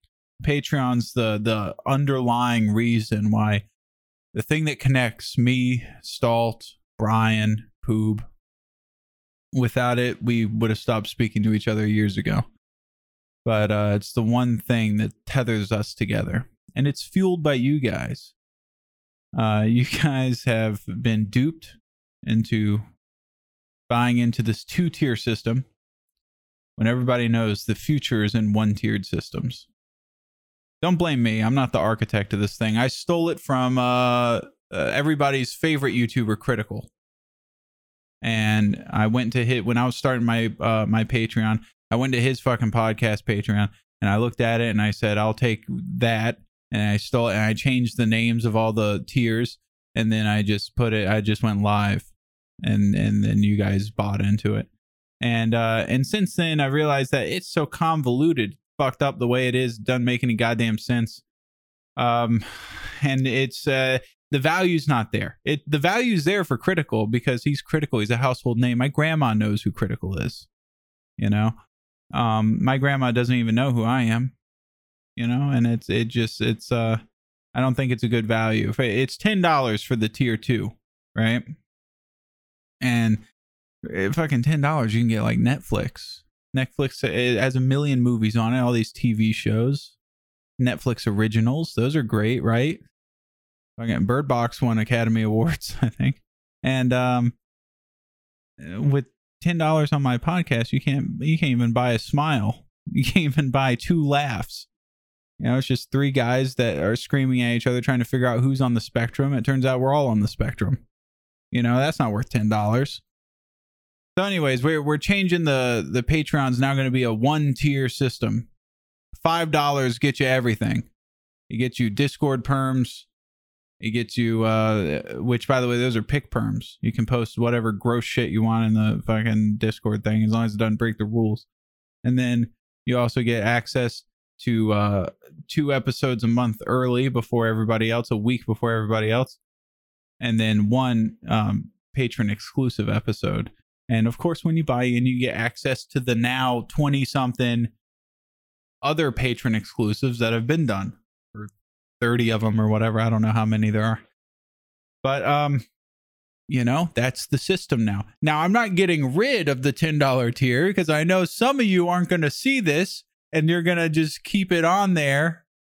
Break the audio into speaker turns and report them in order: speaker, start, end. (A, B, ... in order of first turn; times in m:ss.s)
0:00.4-0:03.6 A
0:04.3-0:08.2 A
0:09.5-0:12.4 A
0:13.4-0:18.3 A
0:19.3-0:22.9 A
0:23.9-0:25.6 A
0:26.8-0:29.7 A
0:30.8-0:36.9 A
0:38.2-0:52.1 A
0:52.6-0:54.7 A
0:55.2-1:01.2 A
1:02.0-1:10.5 A
1:11.2-1:11.6 A
1:12.1-1:14.3 A
1:15.2-1:17.0 A
1:17.5-1:21.5 A
1:22.8-1:23.2 A
1:23.8-1:30.0 A
1:30.6-1:32.8 A
1:33.8-1:37.4 A
1:38.6-1:44.7 A
1:45.4-1:50.8 A
1:51.5-1:53.0 A
1:54.2-1:58.5 A
1:59.1-2:00.9 A
2:01.5-2:03.1 A
2:03.8-2:11.4 A
2:12.0-2:19.4 A
2:20.2-2:27.7 A
2:28.8-2:34.0 A
2:35.0-2:35.6 A
2:36.5-2:45.4 A